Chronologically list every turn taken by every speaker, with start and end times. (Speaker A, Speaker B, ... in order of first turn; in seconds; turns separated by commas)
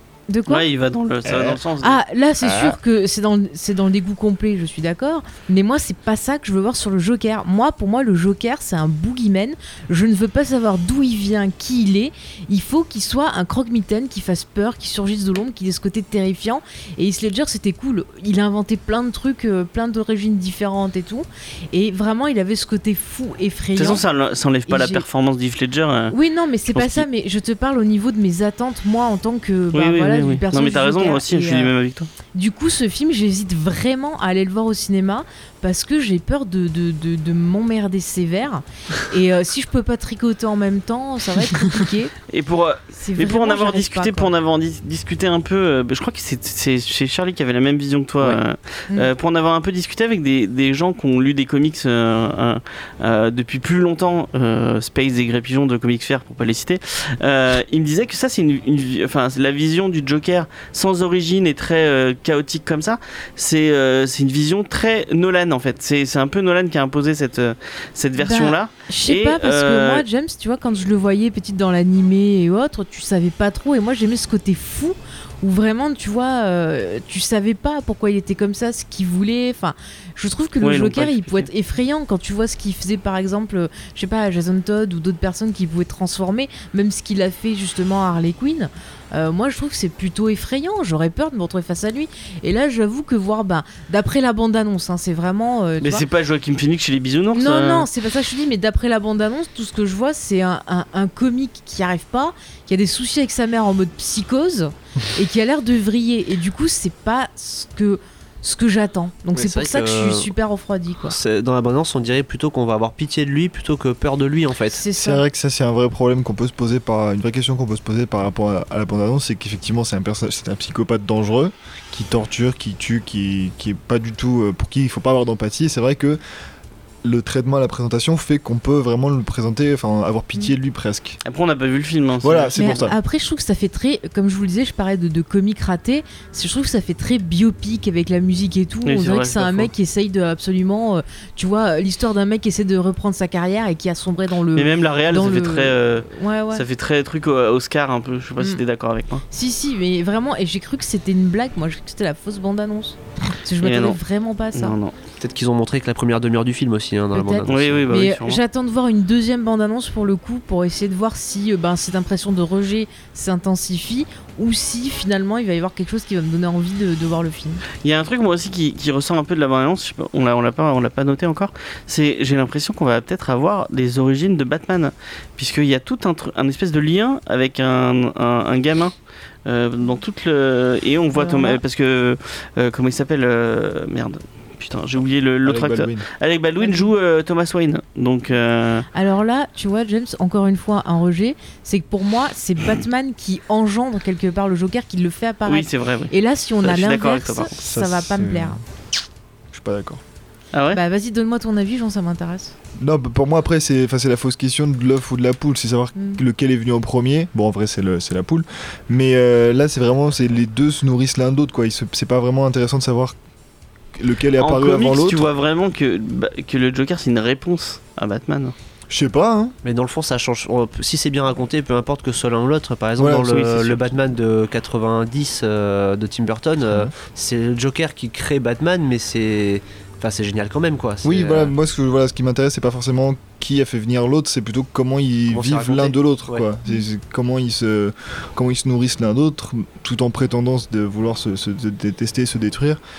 Speaker A: 0.3-0.7, Speaker B: 0.5-2.0, Speaker C: 1.2-1.6, Speaker A: 1.8-24.0, Speaker B: 23.8-26.1, Speaker A: 24.7-25.0, Speaker A: 26.1-31.7, Speaker B: 26.7-27.0, Speaker B: 29.7-32.1, Speaker A: 32.3-42.1, Speaker B: 42.3-70.0, Speaker A: 43.0-44.3, Speaker A: 68.2-96.0, Speaker B: 80.6-81.5, Speaker B: 95.8-97.9, Speaker A: 97.3-111.2, Speaker D: 109.3-110.3, Speaker D: 111.1-114.8, Speaker A: 114.7-115.2, Speaker C: 114.9-126.2, Speaker C: 127.0-131.2, Speaker B: 131.2-132.8, Speaker C: 132.2-132.9, Speaker A: 132.6-146.6, Speaker B: 138.8-139.7, Speaker B: 144.5-149.2, Speaker A: 149.3-154.8, Speaker B: 153.6-154.0, Speaker B: 154.5-154.9, Speaker D: 155.2-157.9, Speaker A: 157.1-167.6, Speaker B: 157.5-158.4, Speaker B: 167.8-178.9, Speaker B: 179.4-188.9, Speaker A: 181.1-181.6, Speaker C: 185.4-186.1, Speaker A: 186.6-186.9, Speaker A: 188.9-198.6, Speaker B: 195.4-197.5, Speaker C: 197.6-198.6, Speaker C: 199.5-200.0, Speaker B: 200.5-200.8, Speaker A: 200.7-202.5, Speaker C: 202.8-213.1, Speaker A: 205.9-206.2, Speaker C: 213.9-215.3, Speaker B: 214.4-218.5, Speaker C: 218.9-219.6, Speaker D: 219.6-231.5, Speaker C: 223.0-223.5, Speaker B: 223.3-223.8, Speaker C: 226.6-226.9, Speaker C: 231.0-242.8, Speaker D: 235.3-236.4